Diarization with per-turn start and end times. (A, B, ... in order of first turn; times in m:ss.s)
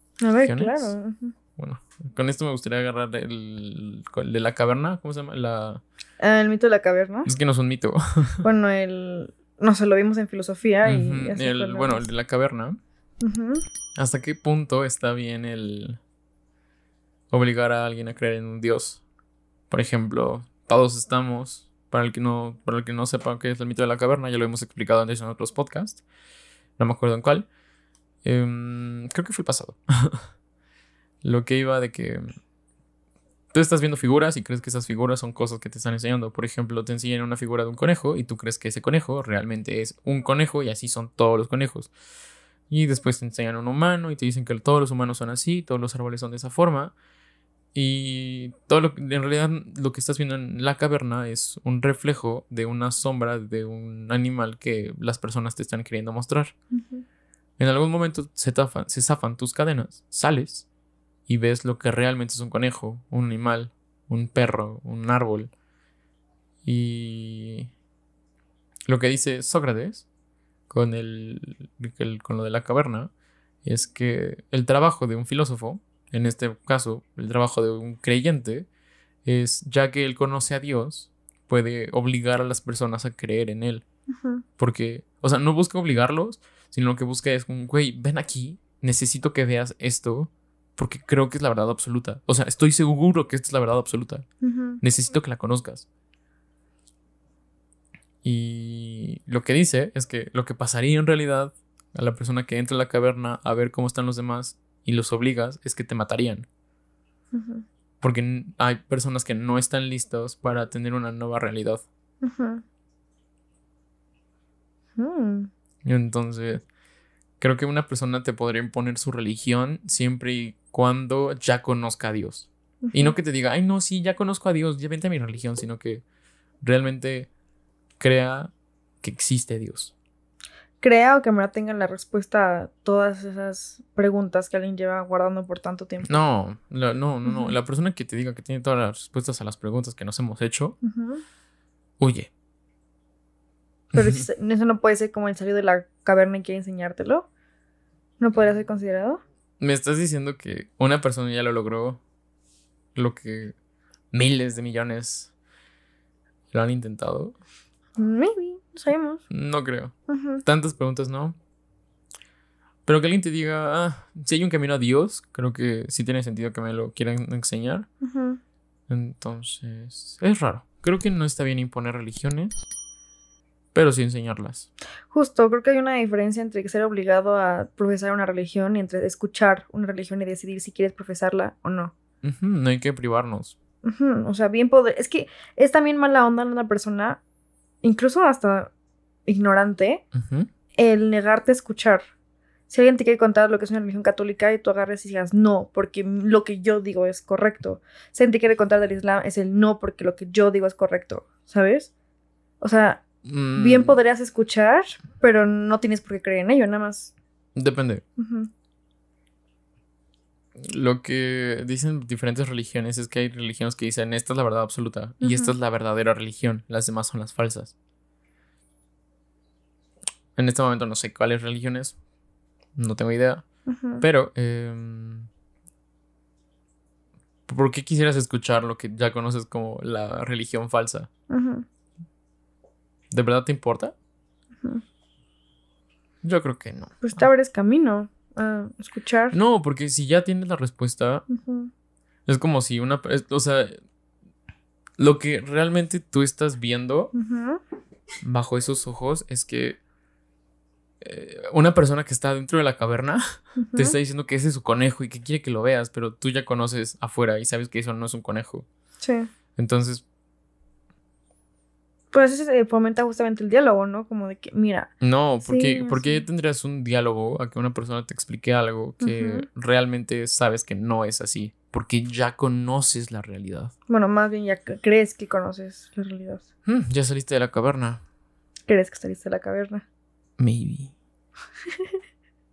0:00.2-0:01.4 A
0:00.4-0:01.0 B
0:01.6-0:05.8 B
0:06.2-0:07.3 A
0:07.3-0:08.4 B
0:08.4-0:12.1 A
0:10.8-0:12.8 B
0:13.2-0:13.6 A
0:14.0-0:16.0 B
0:17.3-0:19.0 B
0:19.7-0:26.0 B
0:26.8-0:27.5 B
0:28.2-0:30.2 B
0:31.2-0:32.3 B
0:33.5-0:41.9 B
0:42.7-0:46.9 B
0:47.7-0:56.5 B
0:56.8-0:57.0 A
0:57.6-1:00.7 B
1:01.3-1:05.5 B
1:06.6-1:07.7 B
1:08.9-1:10.1 B
1:10.7-1:13.1 B
1:13.6-1:18.7 B
1:19.2-1:23.8 B
1:24.1-1:24.4 A
1:24.6-1:34.3 B
1:34.4-1:34.8 A
1:34.8-1:35.9 B
1:38.2-1:46.5 B
1:47.3-1:47.6 A
1:48.0-1:51.8 B
1:52.2-1:52.6 A
1:55.0-1:55.5 A
1:55.8-1:56.6 B
1:57.4-2:06.0 B
2:02.8-2:03.2 A
2:06.6-2:07.3 B
2:08.0-2:09.9 B
2:10.8-2:16.2 A
2:16.0-2:20.8 B
2:17.2-2:17.6 A
2:20.8-2:21.2 A
2:22.0-2:22.3 B
2:23.9-2:24.2 B
2:24.0-2:27.3 A
2:28.2-2:29.2 A
2:29.6-2:32.0 B
2:33.0-2:33.6 B
2:34.1-2:35.3 B
2:36.5-2:37.4 B
2:38.0-2:39.2 A
2:39.3-2:39.9 B
2:40.1-2:40.4 A
2:40.4-2:41.4 B
2:42.9-2:47.9 B
2:48.0-2:48.4 A
2:48.9-2:52.6 B
2:53.7-2:54.7 B
2:55.1-3:01.9 A
3:02.2-3:03.6 B
3:03.8-3:07.2 A
3:07.8-3:08.7 A
3:09.3-3:10.0 A
3:10.1-3:10.5 B
3:10.8-3:12.0 A
3:12.7-3:21.9 A
3:22.6-3:23.0 A
3:23.2-3:24.0 B
3:23.6-3:27.1 A
3:27.6-3:28.0 B
3:28.2-3:28.5 A
3:30.6-3:37.7 B
3:35.2-3:35.6 A
3:40.4-3:42.0 B
3:42.8-3:43.4 B
3:43.7-3:44.1 A
3:44.0-3:45.3 B
3:47.5-3:51.1 B
3:51.3-3:51.7 A
3:53.1-3:53.9 B
3:56.2-3:57.3 B
3:57.0-3:59.4 A
3:59.3-4:01.2 B
4:01.3-4:01.7 A
4:02.3-4:03.8 B
4:05.0-4:07.1 B
4:07.1-4:07.6 A
4:08.2-4:09.8 B
4:11.0-4:13.2 B
4:13.6-4:14.0 A
4:13.8-4:18.7 B
4:19.0-4:19.3 A
4:19.6-4:20.0 B
4:22.1-4:24.9 A
4:25.0-4:33.7 B
4:25.4-4:26.2 A
4:29.0-4:29.5 A
4:33.9-4:36.4 A
4:36.7-4:38.0 B
4:38.7-4:39.8 A
4:40.4-4:40.9 B